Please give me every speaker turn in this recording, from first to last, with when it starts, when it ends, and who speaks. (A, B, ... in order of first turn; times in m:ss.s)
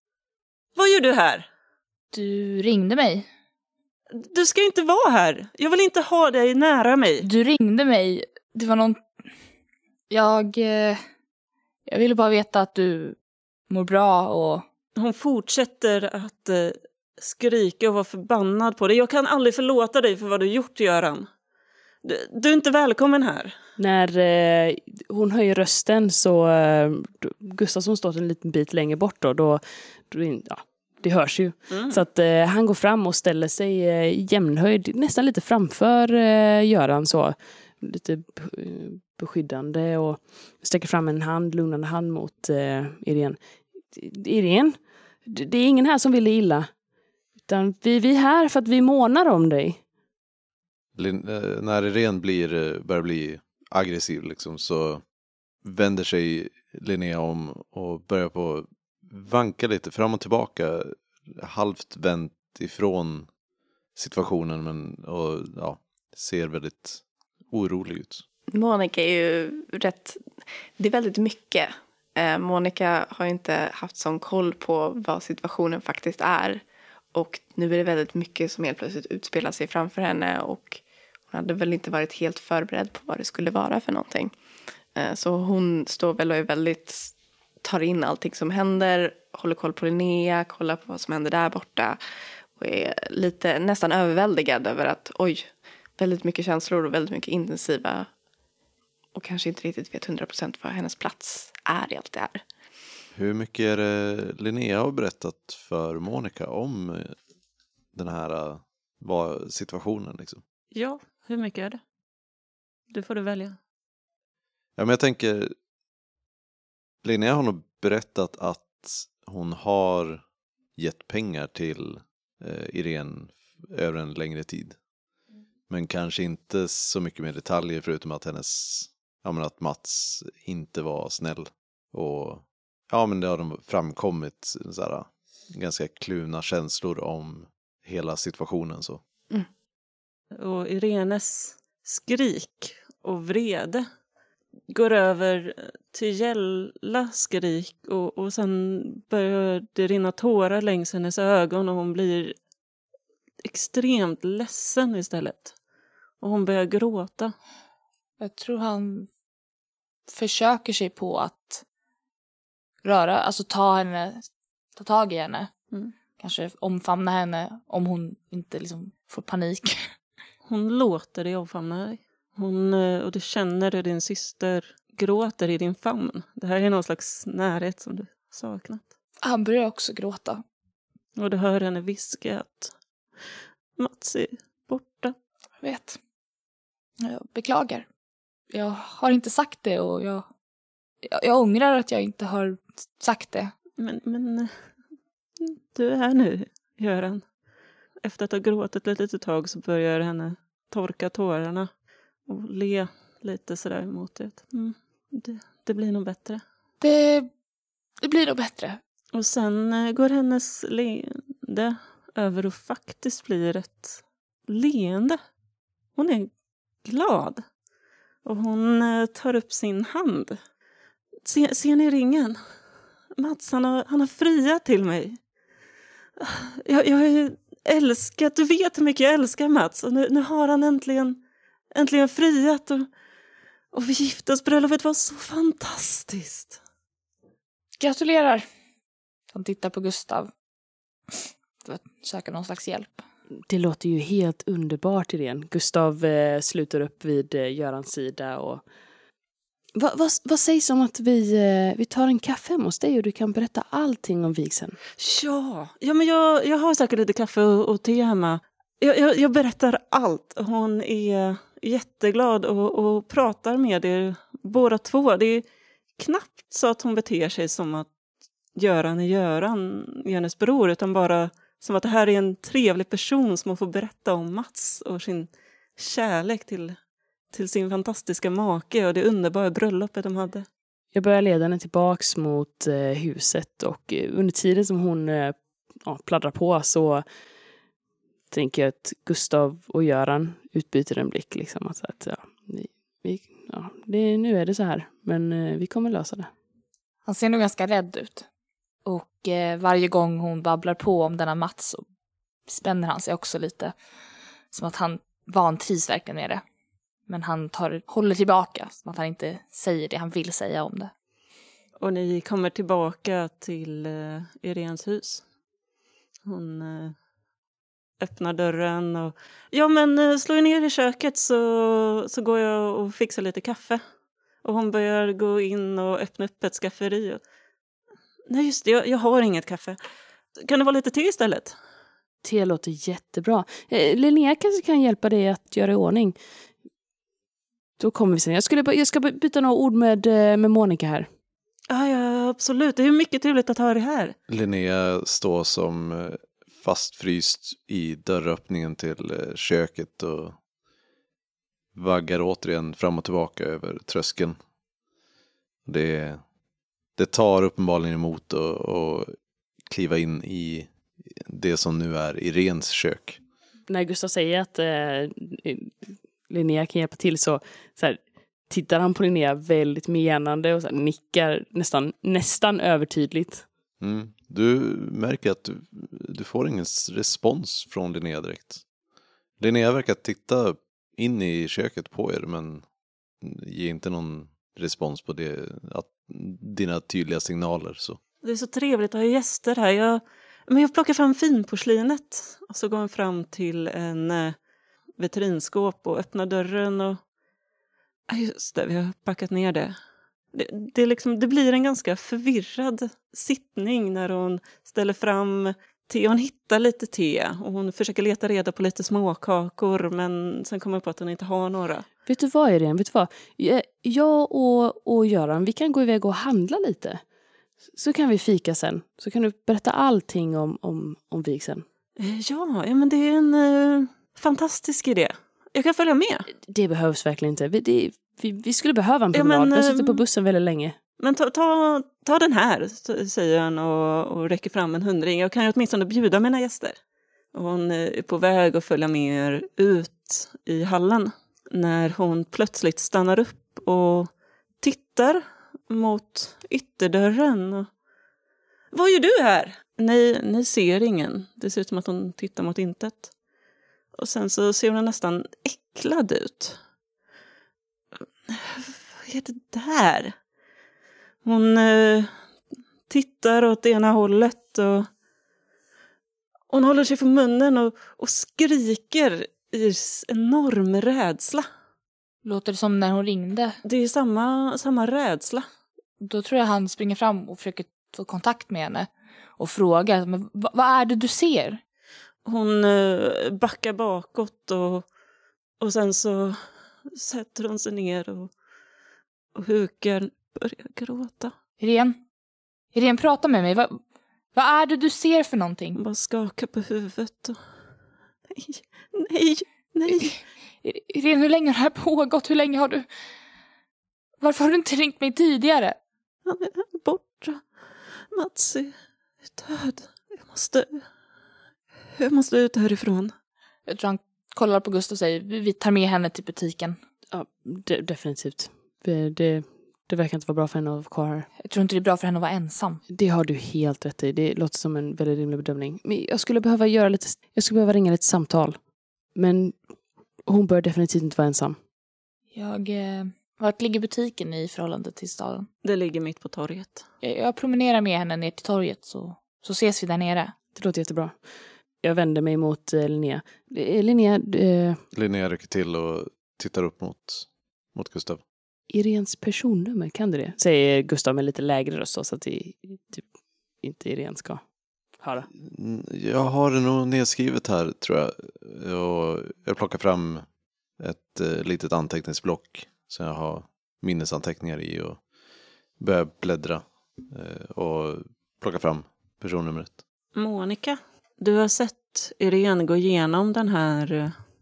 0:00.8-0:01.5 A
0:02.1-0:03.3 B
0:04.1-0:07.2 A
0:07.2-0:09.0 B
0:10.1-0:11.0 B
0:11.9-0:13.2 B
0:13.7-0:14.6 B
0:15.0-0:21.3 A
0:22.0-0:23.6 A
0:23.8-0:46.7 C
0:31.7-0:32.0 A
0:47.4-0:49.8 C
0:51.0-0:55.0 D
0:55.6-1:03.3 D
1:04.0-1:08.2 D
1:08.5-1:16.6 E
1:17.1-1:24.3 E
1:24.9-1:32.0 E
1:32.6-1:38.1 E
1:39.1-1:42.4 E
1:43.1-1:47.2 D
1:47.9-1:50.4 D
1:50.7-1:51.8 A
1:52.9-1:53.6 A
1:54.8-1:55.5 D
1:57.0-2:00.2 D
2:00.8-2:04.8 D
2:05.7-2:19.0 D
2:20.3-2:23.8 A
2:24.7-2:32.3 A
2:33.4-2:35.5 A
2:36.2-2:37.3 A
2:38.2-2:39.1 B
2:40.1-2:41.6 B
2:42.8-2:45.5 B
2:46.2-2:49.8 B
2:50.4-2:58.8 A
2:59.2-3:00.4 B
3:01.2-3:05.1 A
3:05.6-3:06.0 B
3:07.0-3:07.9 B
3:08.5-3:10.3 B
3:11.0-3:13.5 B
3:13.8-3:14.7 A
3:15.4-3:17.3 A
3:18.0-3:21.7 A
3:22.2-3:26.4 A
3:26.8-3:27.3 B
3:28.0-3:28.8 B
3:29.1-3:35.2 A
3:36.0-3:36.3 A
3:36.8-3:37.4 A
3:38.2-3:40.4 A
3:41.2-3:42.4 A
3:43.2-3:45.2 A
3:46.2-3:51.2 A
3:51.7-3:52.9 A
3:53.7-3:56.6 A
3:57.8-3:58.4 B
3:59.3-4:00.3 B
4:01.1-4:03.0 B
4:03.5-4:08.6 C
4:09.7-4:14.8 C
4:15.0-4:25.4 A
4:26.0-4:27.9 A
4:28.5-4:36.8 A
4:37.3-4:40.4 A
4:40.9-4:47.0 C
4:48.3-4:56.3 C
4:57.0-4:58.3 B
4:58.8-5:01.8 B
5:02.5-5:03.7 B
5:04.5-5:06.4 B
5:07.1-5:10.9 B
5:11.8-5:15.2 A
5:16.2-5:16.9 A
5:18.0-5:23.8 A
5:24.4-5:27.2 A
5:28.3-5:29.8 A
5:30.4-5:31.5 A
5:32.2-5:36.2 C
5:37.8-5:41.1 C
5:41.7-5:44.2 A
5:44.3-5:50.4 D
5:51.7-5:54.4 D
5:55.6-5:56.2 D
5:57.0-5:59.1 D
5:59.6-6:03.2 D
6:03.7-6:13.4 C
6:13.8-6:18.6 D
6:19.4-6:22.6 D
6:23.2-6:28.0 D
6:28.2-6:34.4 A
6:35.0-6:37.0 A
6:38.1-6:39.8 A
6:40.3-6:51.9 A
6:52.0-6:57.0 C
6:57.7-7:01.6 C
7:02.0-7:06.3 A
7:06.4-7:10.8 C
7:09.1-7:10.0 A
7:11.0-7:16.7 A
7:17.3-7:27.7 A
7:28.7-7:33.1 A
7:33.9-7:36.6 A
7:38.3-7:40.2 A
7:41.2-7:42.1 A
7:42.9-7:44.9 A
7:46.5-7:51.4 A
7:52.2-7:53.6 B
7:53.6-7:55.4 A
7:56.0-8:01.6 B
8:02.2-8:04.9 A
8:05.6-8:08.3 A
8:09.3-8:11.3 A
8:11.6-8:12.0 B
8:12.7-8:13.8 B
8:14.3-8:15.8 B
8:15.8-8:17.4 A
8:18.3-8:20.2 A
8:20.6-8:22.8 B
8:24.2-8:25.8 B
8:26.2-8:28.7 A
8:29.3-8:30.9 A
8:31.9-8:33.1 A
8:33.6-8:36.8 B
8:37.1-8:41.3 C
8:41.4-8:42.8 B
8:42.9-8:49.6 C
8:50.2-8:51.6 C
8:52.3-8:55.5 B
8:55.6-8:56.8 A
8:57.0-9:00.3 B
9:00.5-9:01.3 C
9:01.8-9:04.8 C
9:04.9-9:08.2 D
9:08.7-9:13.1 C
9:13.6-9:14.4 C
9:15.0-9:15.3 C
9:15.3-9:20.2 D
9:20.8-9:25.0 D
9:25.8-9:29.8 D
9:30.1-9:34.2 A